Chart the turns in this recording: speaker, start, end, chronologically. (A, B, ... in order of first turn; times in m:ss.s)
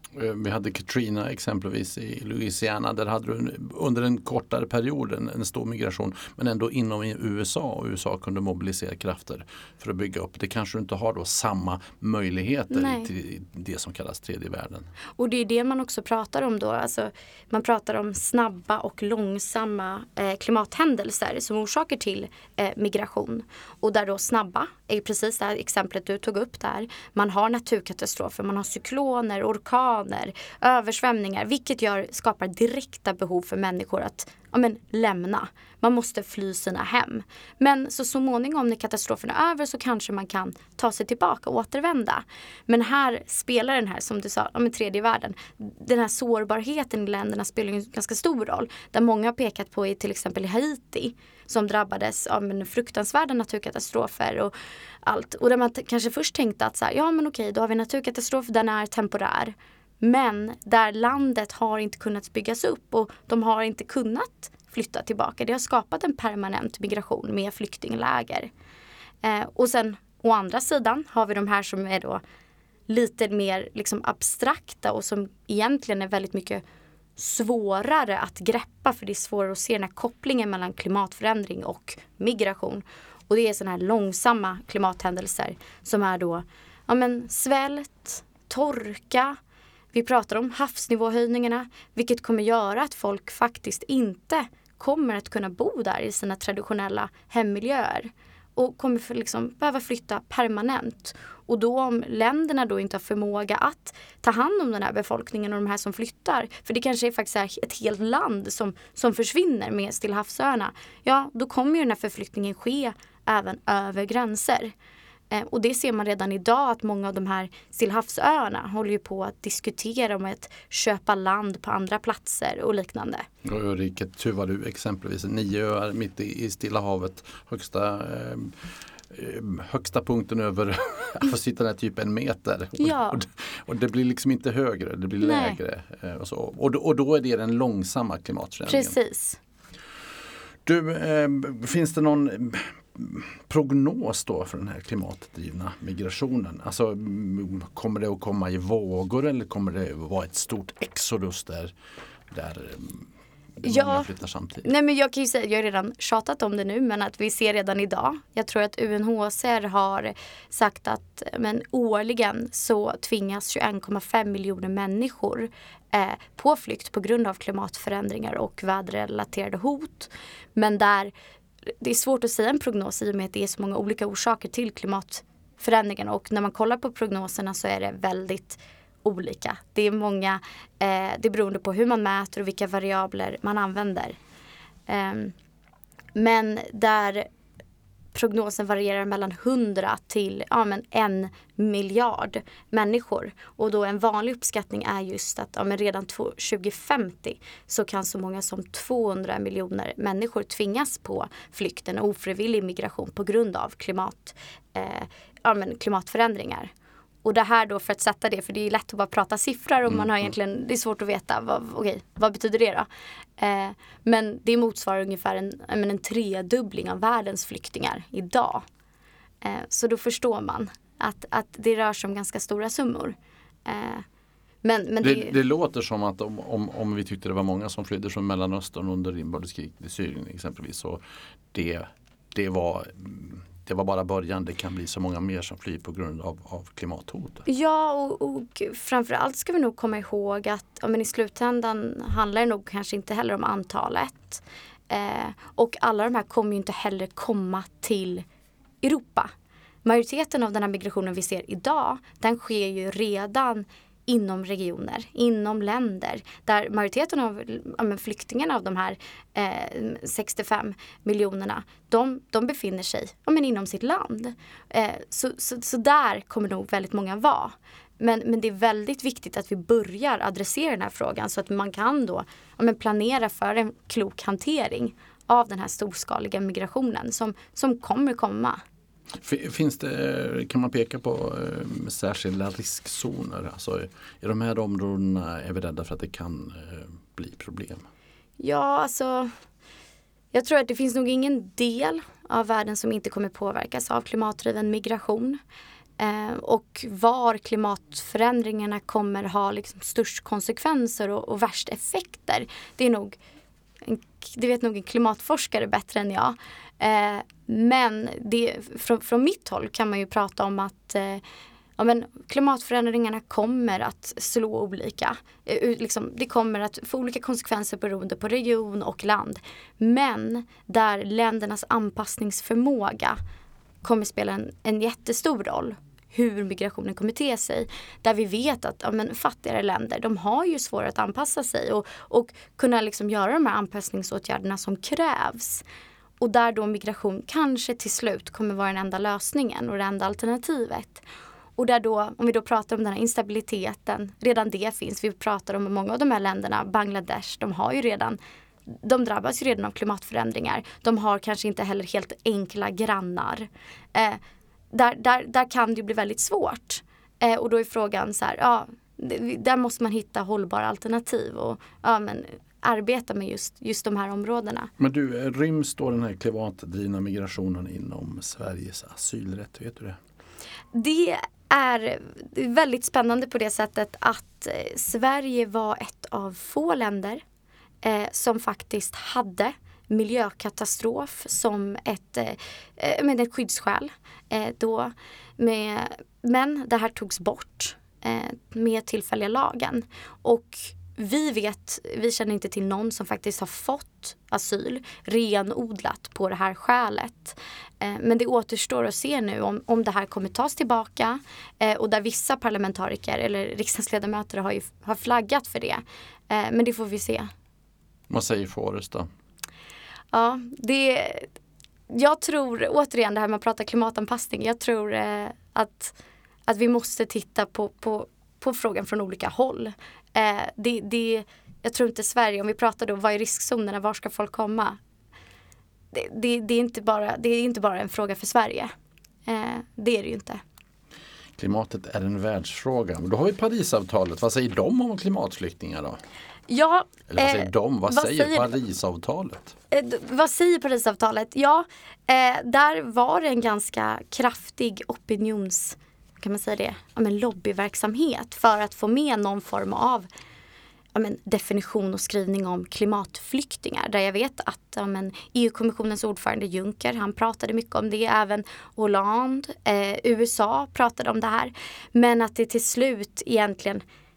0:00.2-0:14.9 A
0:12.7-0:13.1 B
0:15.2-1:08.5 B
1:09.2-1:12.2 B
1:12.9-1:16.6 B
1:17.2-1:29.4 B
1:29.9-1:54.7 B
1:55.3-2:03.3 B
2:03.4-2:08.5 A
2:09.1-2:19.0 A
2:12.8-2:13.2 B
2:15.2-2:15.6 B
2:18.7-2:19.4 B
2:20.7-2:31.7 A
2:32.3-2:33.1 A
2:33.6-2:34.7 A
2:33.6-2:34.1 B
2:34.6-2:51.1 B
2:51.7-3:04.2 B
3:04.9-3:05.3 B
3:06.2-3:07.3 B
3:08.1-3:26.7 B
3:27.2-3:32.9 B
3:29.9-3:30.2 A
3:33.4-3:38.6 B
3:39.4-3:44.0 B
3:44.6-3:45.4 B
3:45.0-3:51.0 A
3:51.5-3:57.5 A
3:57.5-4:08.2 B
4:08.8-4:09.3 B
4:09.8-4:38.6 B
4:39.2-4:47.8 A
4:48.4-4:49.3 B
4:50.3-4:55.4 B
4:56.0-5:03.2 B
5:03.8-5:11.2 B
5:11.8-5:23.2 B
5:23.8-5:35.6 B
5:36.2-5:41.0 B
5:41.6-5:54.2 B
5:54.7-6:04.7 B
6:04.8-6:10.0 A
6:10.7-6:17.2 B
6:17.8-6:47.3 B
6:48.1-6:49.1 A
6:50.1-6:51.3 B
6:51.9-6:56.0 B
6:56.5-7:04.8 B
7:05.9-7:08.7 B
7:09.3-7:10.4 B
7:11.4-7:16.0 A
7:16.5-7:18.6 B
7:17.1-7:19.6 A
7:19.7-7:30.1 B
7:31.0-7:43.8 B